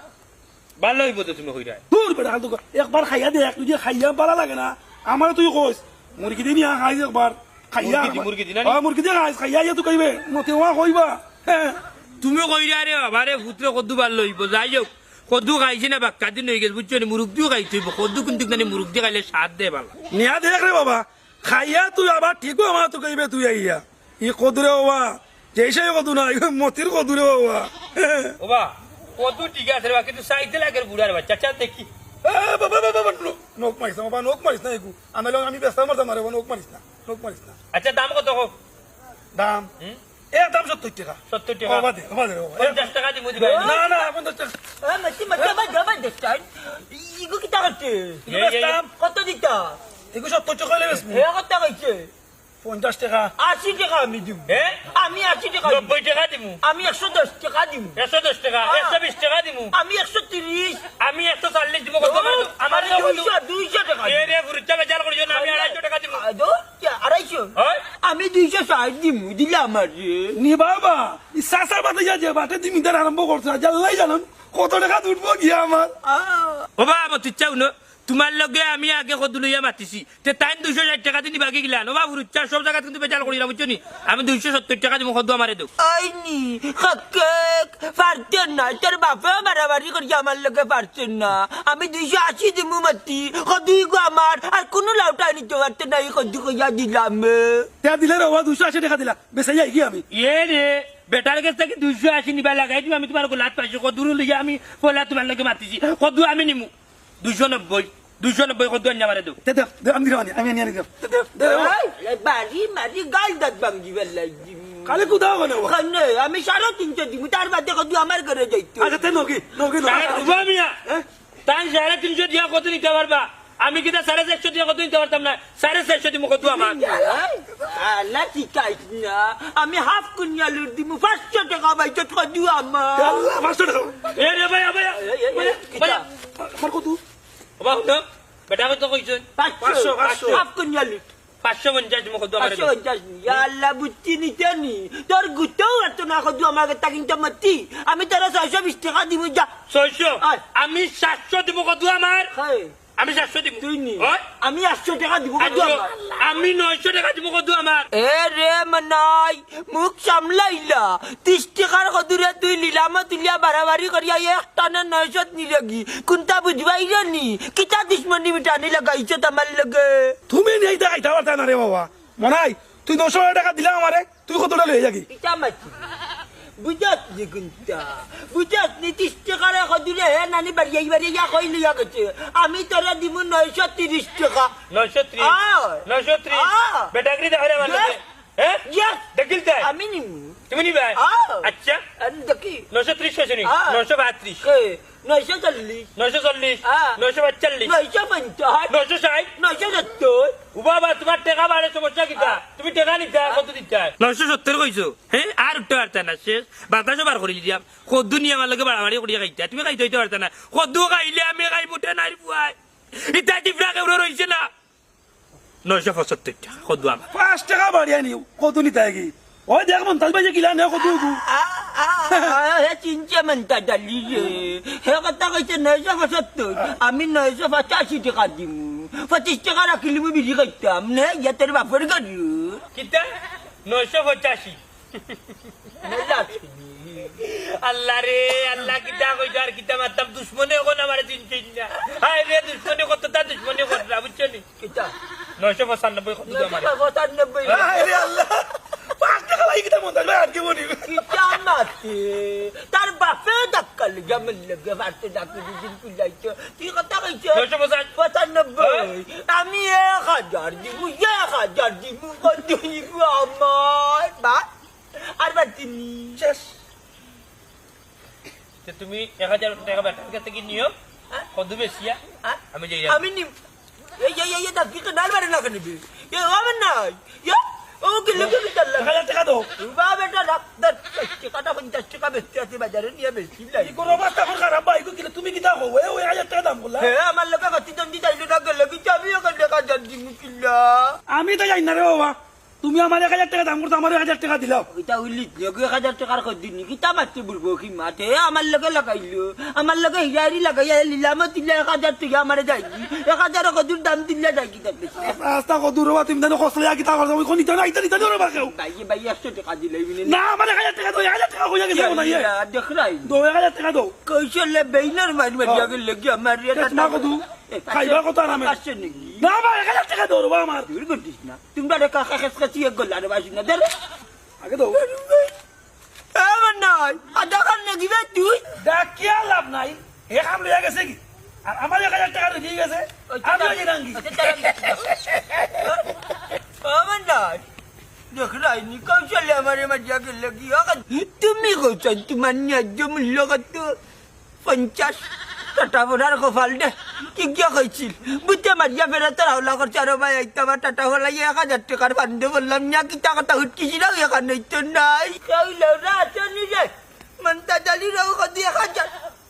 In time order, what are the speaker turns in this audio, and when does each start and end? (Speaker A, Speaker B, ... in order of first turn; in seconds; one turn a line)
Speaker A: 0.8-1.8
Speaker B: 1.9-11.8
Speaker A: 7.8-8.8
Speaker A: 12.2-19.9
Speaker B: 20.1-28.3
Speaker A: 28.4-31.9
Speaker B: 32.2-37.5
Speaker A: 37.7-38.5
Speaker B: 39.3-39.7
Speaker B: 40.3-42.9
Speaker A: 41.3-41.9
Speaker A: 42.6-43.8
Speaker C: 43.3-44.1
Speaker B: 43.6-44.5
Speaker C: 44.8-48.2
Speaker B: 48.2-48.9
Speaker A: 48.3-48.8
Speaker C: 48.9-49.8
Speaker B: 50.1-51.2
Speaker C: 50.9-52.1
Speaker B: 52.6-53.3
Speaker C: 53.4-55.9
Speaker A: 54.5-54.8
Speaker A: 55.6-56.6
Speaker C: 56.6-58.0
Speaker A: 58.0-59.7
Speaker C: 58.6-59.0
Speaker C: 59.7-60.8
Speaker A: 61.0-63.3
Speaker C: 62.0-64.3
Speaker A: 64.0-66.2
Speaker C: 65.3-70.4
Speaker A: 67.5-67.8
Speaker B: 70.3-75.9
Speaker C: 76.0-76.7
Speaker A: 76.8-85.7
Speaker C: 85.8-97.7
Speaker B: 97.8-100.0
Speaker A: 100.1-106.7
Speaker A: 107.2-109.3
Speaker B: 109.4-111.7
Speaker C: 111.4-119.2
Speaker B: 114.8-115.8
Speaker B: 118.8-121.0
Speaker A: 119.8-120.8
Speaker A: 121.5-127.0
Speaker C: 126.4-133.3
Speaker B: 132.9-134.1
Speaker A: 134.1-136.0
Speaker C: 134.9-136.0
Speaker B: 136.4-137.0
Speaker A: 137.6-139.2
Speaker C: 139.3-141.1
Speaker B: 139.6-140.4
Speaker A: 140.0-140.4
Speaker A: 141.4-142.7
Speaker C: 142.4-149.5
Speaker A: 149.7-152.3
Speaker C: 152.3-152.7
Speaker A: 153.0-154.2
Speaker C: 153.6-156.2
Speaker A: 155.4-157.9
Speaker C: 157.9-170.2
Speaker B: 170.3-175.1
Speaker C: 175.1-175.9
Speaker C: 176.6-184.5
Speaker A: 184.7-189.7
Speaker C: 185.2-186.9
Speaker C: 187.6-188.0
Speaker C: 188.7-189.0
Speaker C: 189.6-190.4
Speaker A: 190.5-191.8
Speaker C: 190.9-192.7
Speaker A: 192.7-194.4
Speaker C: 193.4-193.8
Speaker C: 194.4-195.9
Speaker A: 195.9-197.7
Speaker C: 196.6-197.0
Speaker C: 197.6-198.7
Speaker A: 198.7-199.3
Speaker C: 199.4-200.4
Speaker A: 200.5-214.5
Speaker C: 202.1-202.4
Speaker A: 215.6-217.0
Speaker B: 217.1-221.2
Speaker C: 220.8-232.6
Speaker A: 232.7-233.1
Speaker A: 233.6-235.2
Speaker C: 235.8-237.2
Speaker A: 237.2-244.4
Speaker C: 244.6-244.9
Speaker A: 245.4-246.7
Speaker C: 246.2-248.1
Speaker B: 247.4-251.0
Speaker C: 250.8-264.4
Speaker A: 257.3-257.9
Speaker A: 258.6-258.9
Speaker C: 265.2-266.2
Speaker A: 268.6-270.7
Speaker A: 271.3-272.0
Speaker C: 272.2-273.3
Speaker A: 272.5-273.0
Speaker C: 274.0-279.0
Speaker B: 278.1-279.5
Speaker C: 279.6-284.0
Speaker B: 283.6-286.9
Speaker C: 286.8-291.0
Speaker B: 291.1-294.6
Speaker C: 294.7-305.2
Speaker B: 305.0-308.5
Speaker C: 308.4-310.2
Speaker B: 310.0-312.3
Speaker C: 311.7-313.1
Speaker B: 313.0-313.9
Speaker C: 314.0-319.3
Speaker B: 315.4-315.7
Speaker B: 316.5-318.6
Speaker B: 319.2-320.7
Speaker C: 320.6-323.7
Speaker B: 324.4-324.8
Speaker C: 324.7-325.3
Speaker C: 326.1-328.4
Speaker B: 328.6-334.4
Speaker C: 333.1-335.9
Speaker C: 336.6-337.4
Speaker C: 338.1-343.8
Speaker C: 344.4-345.0
Speaker C: 345.5-358.9